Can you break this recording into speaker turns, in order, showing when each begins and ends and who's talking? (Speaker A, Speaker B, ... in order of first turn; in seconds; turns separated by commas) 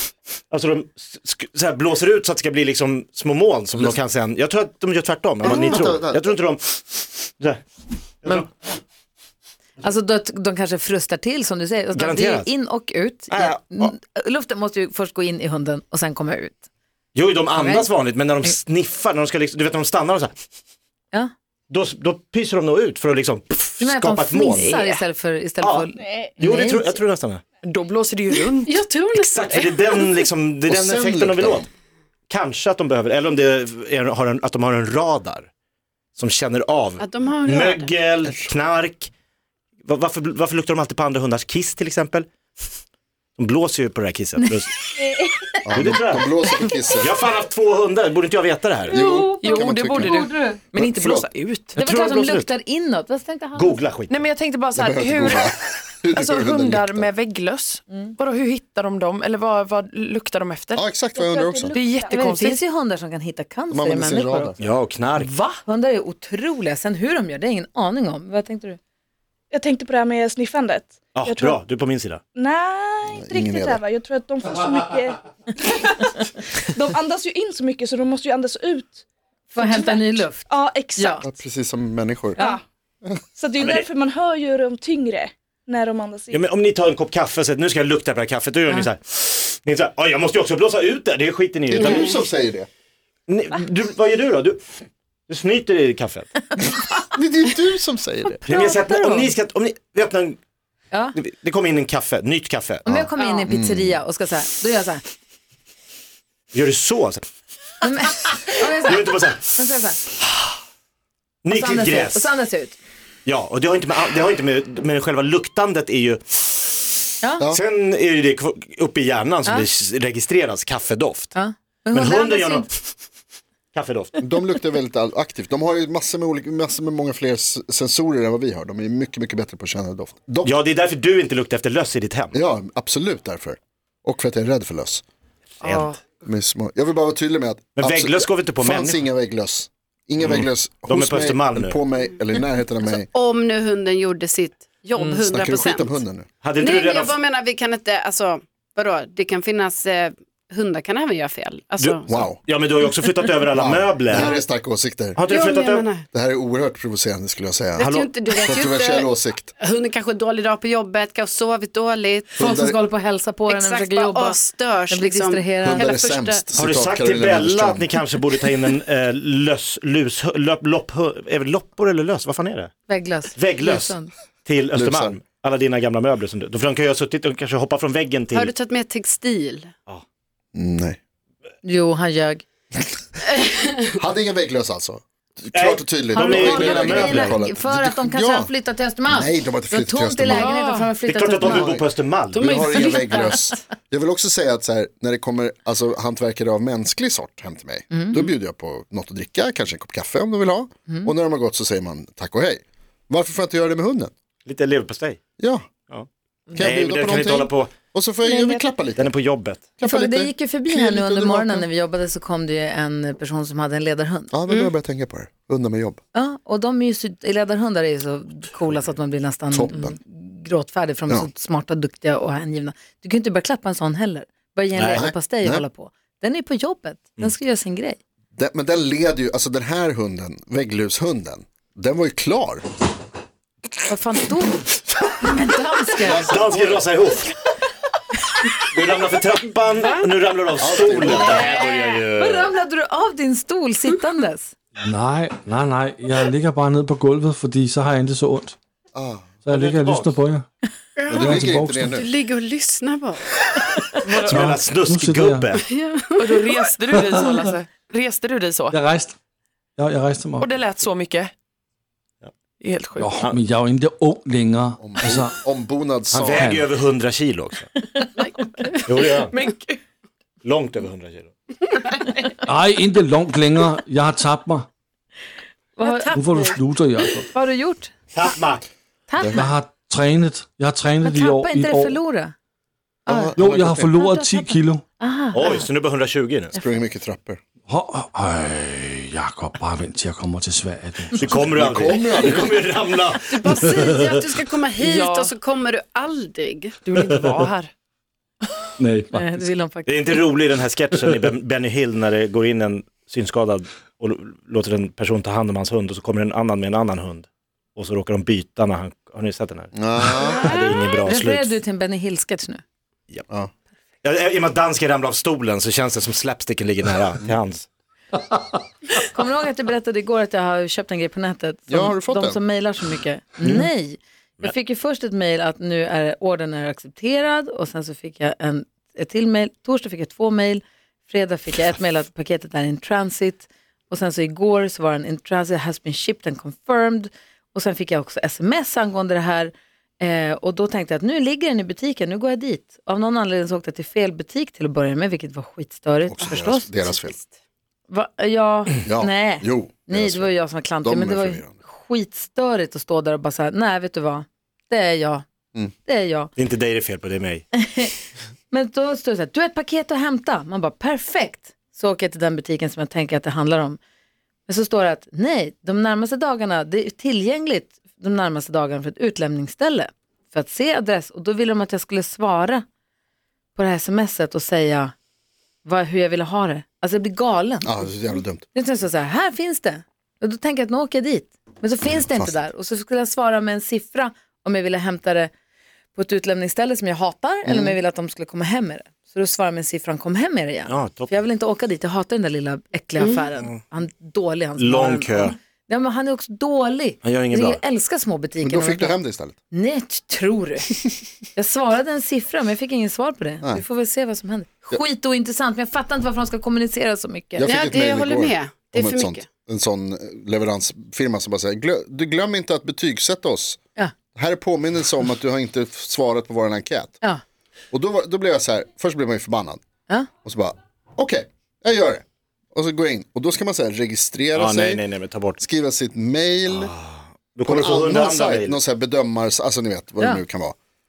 Speaker A: 0.5-7.6, Speaker B: 5.4-6.3, Speaker C: 5.4-5.7, Speaker A: 8.2-8.5, Speaker D: 9.8-16.6, Speaker A: 11.9-12.5, Speaker A: 13.3-13.9, Speaker A: 17.1-20.3, Speaker D: 17.6-17.9, Speaker A: 21.7-24.7, Speaker D: 23.8-27.0, Speaker E: 24.5-25.0, Speaker A: 25.6-25.9, Speaker F: 26.0-26.3, Speaker A: 26.4-27.4, Speaker E: 27.6-28.8, Speaker C: 28.3-30.0, Speaker A: 29.1-31.6, Speaker B: 30.7-31.7, Speaker A: 32.3-35.5, Speaker A: 36.1-39.1, Speaker C: 37.0-37.9, Speaker B: 38.2-38.5, Speaker A: 39.8-42.3, Speaker A: 43.4-44.7, Speaker F: 45.0-45.3, Speaker B: 45.6-47.2, Speaker A: 45.7-46.3, Speaker A: 47.0-49.0, Speaker D: 48.9-50.6, Speaker E: 49.0-51.8, Speaker B: 49.0-51.3, Speaker A: 51.8-52.5, Speaker D: 51.8-53.8, Speaker A: 53.5-54.1, Speaker E: 54.1-55.5, Speaker B: 54.8-57.1, Speaker E: 56.1-60.9, Speaker B: 60.8-61.8, Speaker F: 61.1-62.2, Speaker E: 61.7-62.6, Speaker D: 62.1-64.5, Speaker B: 63.7-64.7, Speaker A: 64.6-65.3, Speaker E: 65.2-65.6, Speaker D: 65.6-68.8, Speaker F: 69.5-71.6, Speaker A: 71.1-72.2, Speaker F: 72.3-81.3, Speaker B: 73.1-73.8, Speaker D: 79.5-81.2, Speaker B: 81.2-82.4, Speaker F: 82.3-82.6, Speaker F: 83.3-86.4, Speaker A: 86.3-92.2, Speaker B: 91.7-92.7, Speaker A: 93.3-96.3, Speaker B: 96.8-98.4, Speaker A: 98.5-100.4, Speaker D: 98.5-99.2, Speaker A: 101.1-103.0, Speaker D: 102.8-105.0, Speaker B: 102.9-104.0, Speaker A: 106.5-107.2, Speaker D: 107.8-110.0, Speaker A: 108.8-109.5, Speaker A: 111.4-112.3, Speaker D: 111.5-112.8, Speaker A: 113.2-116.9, Speaker A: 117.5-121.3, Speaker D: 121.3-122.7, Speaker A: 121.9-122.7, Speaker A: 123.7-124.2, Speaker B: 124.2-130.5, Speaker A: 130.4-132.4, Speaker B: 132.3-135.0, Speaker A: 135.6-136.0, Speaker E: 135.6-136.0, Speaker B: 136.2-143.1, Speaker A: 137.8-139.0, Speaker A: 140.2-141.8, Speaker C: 142.8-146.0, Speaker B: 145.3-146.3, Speaker A: 146.4-147.2, Speaker C: 146.6-152.1, Speaker A: 151.8-154.4, Speaker B: 152.1-152.4, Speaker B: 153.5-155.2, Speaker C: 154.1-154.4, Speaker A: 155.2-155.9, Speaker C: 155.3-156.0, Speaker B: 156.1-157.9, Speaker C: 157.8-162.5, Speaker A: 157.8-158.1, Speaker B: 158.4-159.5, Speaker B: 162.3-162.8, Speaker D: 162.3-165.8, Speaker C: 163.5-166.4, Speaker B: 165.6-168.0, Speaker A: 166.5-172.7, Speaker D: 172.9-174.1, Speaker A: 173.3-178.5, Speaker B: 174.7-175.2, Speaker C: 178.3-179.7, Speaker B: 180.5-181.0, Speaker D: 181.6-182.4, Speaker C: 183.2-184.0, Speaker B: 184.0-188.5, Speaker A: 185.5-187.4, Speaker D: 186.1-191.8, Speaker B: 189.0-190.5, Speaker C: 190.3-190.9, Speaker A: 191.0-192.4, Speaker B: 191.5-191.8, Speaker C: 192.3-193.5, Speaker B: 192.4-204.1, Speaker D: 197.9-198.2, Speaker A: 204.4-205.2, Speaker B: 205.4-205.7, Speaker A: 205.9-207.7, Speaker B: 206.5-209.1, Speaker D: 208.3-208.5, Speaker A: 209.0-209.6, Speaker B: 209.8-211.7, Speaker D: 209.8-214.3, Speaker B: 214.3-216.0, Speaker D: 216.1-228.0, Speaker B: 219.5-220.0, Speaker A: 224.8-225.1, Speaker B: 224.9-225.7, Speaker B: 228.3-232.6, Speaker D: 233.9-234.6, Speaker D: 235.2-236.2, Speaker B: 236.0-236.9, Speaker A: 236.2-237.3, Speaker A: 238.7-242.4, Speaker B: 240.6-242.4, Speaker D: 241.1-244.5, Speaker G: 244.8-248.6, Speaker B: 248.9-249.3, Speaker G: 249.4-250.5, Speaker A: 249.5-250.1, Speaker C: 251.0-251.3, Speaker G: 251.1-252.0, Speaker B: 251.1-252.1, Speaker C: 251.9-253.2, Speaker G: 254.1-255.6, Speaker E: 254.1-254.6, Speaker A: 254.2-255.6, Speaker C: 255.7-256.6, Speaker E: 256.2-258.8, Speaker G: 256.9-257.6, Speaker G: 258.7-259.1, Speaker G: 259.8-260.5, Speaker E: 260.4-261.3, Speaker E: 262.6-263.3, Speaker G: 262.9-265.4, Speaker B: 264.8-266.5, Speaker A: 266.1-267.7, Speaker G: 266.3-266.6, Speaker C: 268.2-268.7, Speaker E: 268.4-269.8, Speaker A: 268.9-269.3, Speaker A: 270.4-271.3, Speaker G: 272.4-274.7, Speaker D: 275.8-276.2, Speaker C: 275.8-276.6, Speaker G: 276.1-277.3, Speaker D: 277.3-277.9, Speaker A: 278.1-278.6, Speaker D: 279.1-279.5, Speaker B: 279.2-279.4, Speaker G: 279.3-282.0, Speaker D: 281.0-282.3, Speaker D: 283.1-283.4, Speaker B: 283.1-283.9, Speaker G: 283.4-284.8, Speaker D: 284.0-285.6, Speaker A: 285.3-286.5, Speaker B: 286.5-287.4, Speaker G: 287.7-291.4, Speaker A: 291.1-293.6, Speaker B: 291.3-292.7, Speaker C: 293.3-296.7, Speaker G: 293.4-294.2, Speaker E: 294.8-295.3, Speaker E: 296.9-297.7, Speaker G: 296.9-297.4, Speaker G: 298.8-299.4, Speaker D: 299.1-300.2, Speaker A: 299.9-311.5, Speaker G: 300.9-301.2, Speaker B: 309.7-310.5, Speaker C: 310.3-311.0, Speaker D: 311.0-312.6, Speaker A: 314.0-317.7, Speaker D: 319.0-346.7, Speaker B: 321.7-322.4, Speaker B: 323.4-323.7, Speaker B: 346.1-347.2, Speaker D: 347.9-355.2, Speaker B: 348.8-351.5, Speaker D: 355.8-356.3, Speaker A: 356.4-357.4, Speaker D: 357.5-357.9, Speaker D: 358.5-363.8, Speaker D: 364.5-372.6, Speaker D: 373.5-374.9, Speaker D: 375.6-377.9, Speaker B: 377.6-378.4, Speaker D: 378.5-385.3, Speaker B: 382.0-382.3, Speaker D: 385.9-398.9, Speaker B: 387.4-387.8, Speaker A: 390.7-391.1, Speaker A: 394.6-395.4, Speaker A: 397.0-397.6, Speaker B: 398.4-399.4, Speaker D: 399.5-400.8, Speaker D: 401.3-407.5, Speaker B: 407.4-413.6, Speaker C: 407.4-409.2, Speaker B: 414.1-417.0, Speaker B: 417.7-419.6, Speaker B: 420.2-424.8, Speaker A: 424.3-425.4, Speaker B: 425.4-426.7, Speaker A: 426.5-428.6, Speaker B: 427.4-430.5